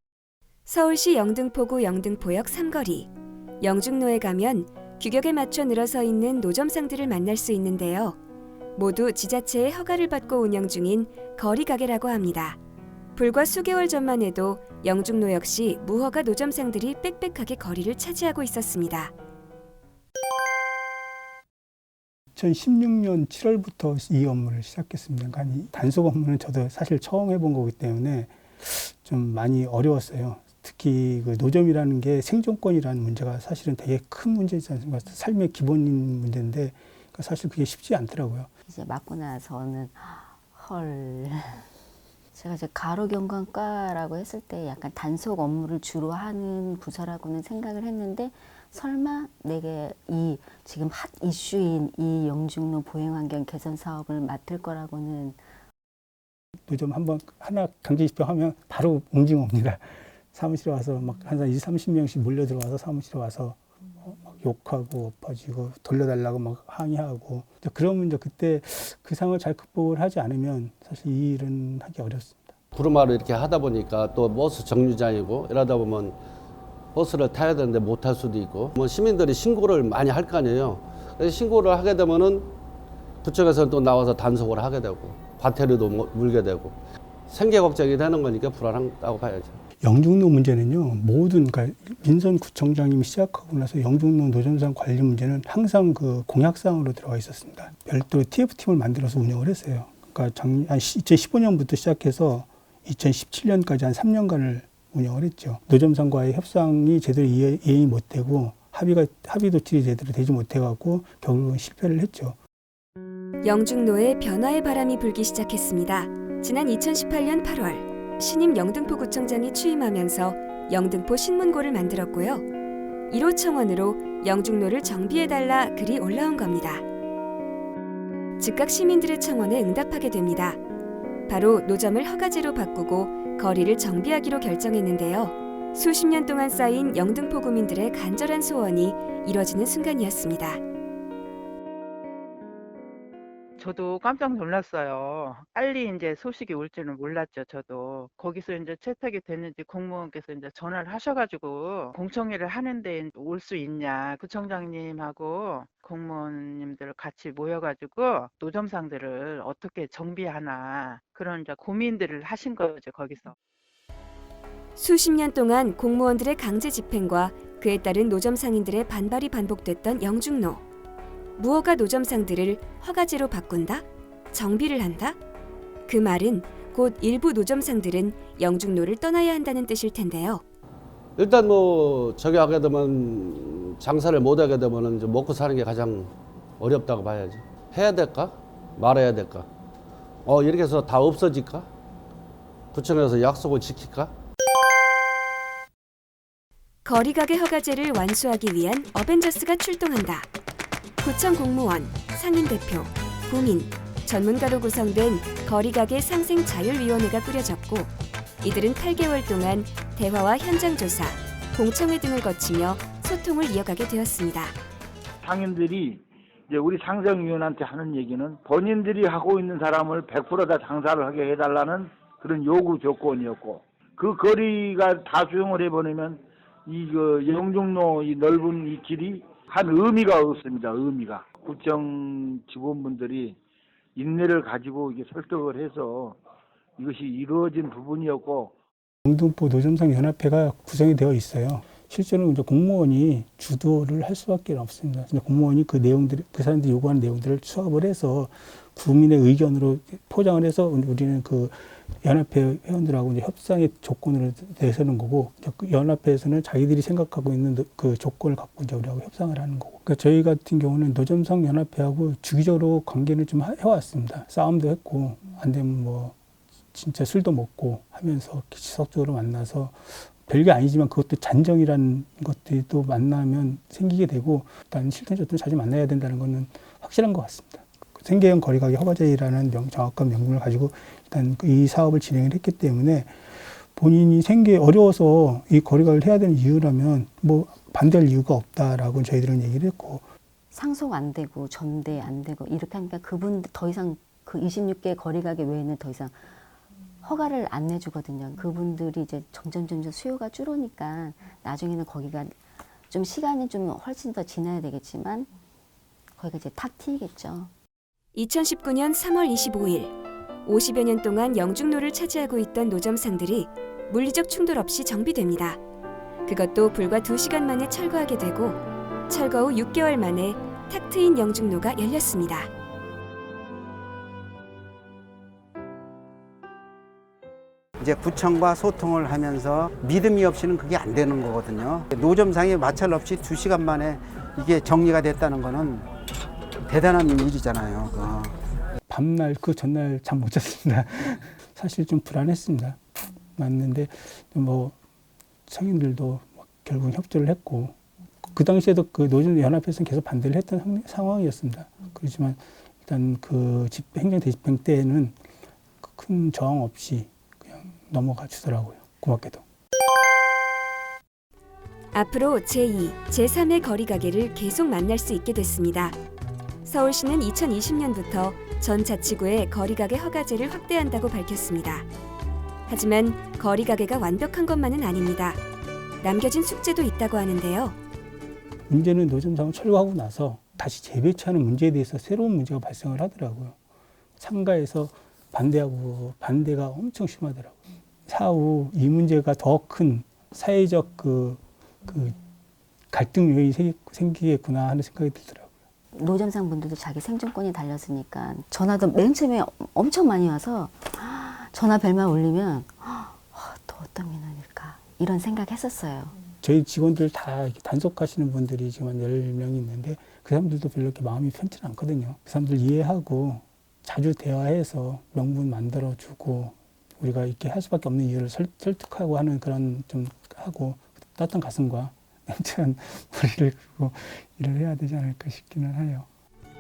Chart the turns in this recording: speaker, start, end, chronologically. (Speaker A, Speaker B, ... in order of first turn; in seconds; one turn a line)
Speaker A: 0.7-3.1
Speaker A: 3.6-8.2
Speaker A: 8.8-12.6
Speaker A: 13.2-19.1
Speaker B: 22.4-38.5
Speaker C: 38.7-41.7
Speaker C: 42.4-55.4
Speaker B: 56.7-72.5
Speaker D: 72.7-76.2
Speaker D: 77.0-82.5
Speaker D: 83.2-86.8
Speaker D: 87.3-89.6
Speaker B: 89.8-112.4
Speaker A: 113.4-122.5
Speaker A: 123.1-126.8
Speaker A: 128.4-130.6
Speaker A: 131.3-140.6
Speaker E: 143.6-163.3
Speaker A: 164.8-170.6
Speaker A: 171.4-175.2
Speaker A: 175.9-180.4
Speaker D: 181.2-189.5
Speaker D: 190.3-191.7
Speaker D: 192.7-194.1
Speaker A: 196.8-200.3
Speaker A: 201.0-214.6
Speaker F: 215.2-233.4
Speaker F: 234.0-236.2
Speaker F: 236.8-238.5
Speaker B: 239.1-266.2
Speaker B: 266.7-283.2
Speaker B: 283.8-290.0
Speaker C: 290.5-296.4
Speaker C: 297.0-302.4
Speaker C: 302.9-305.3
Speaker C: 306.2-307.5
Speaker A: 308.1-315.6
Speaker A: 316.3-322.5
Speaker G: 327.8-335.9
Speaker G: 336.6-338.4
Speaker B: 338.9-342.8
Speaker B: 343.4-344.8
Speaker B: 345.5-347.8
Speaker B: 348.3-355.2
Speaker B: 355.8-359.4
Speaker A: 361.9-366.0
Speaker A: 366.6-371.9
Speaker A: 372.7-375.4
Speaker A: 376.0-377.8
Speaker B: 378.7-383.6
Speaker B: 384.2-392.2
Speaker B: 392.9-395.5
Speaker C: 395.9-406.1
Speaker B: 406.4-426.1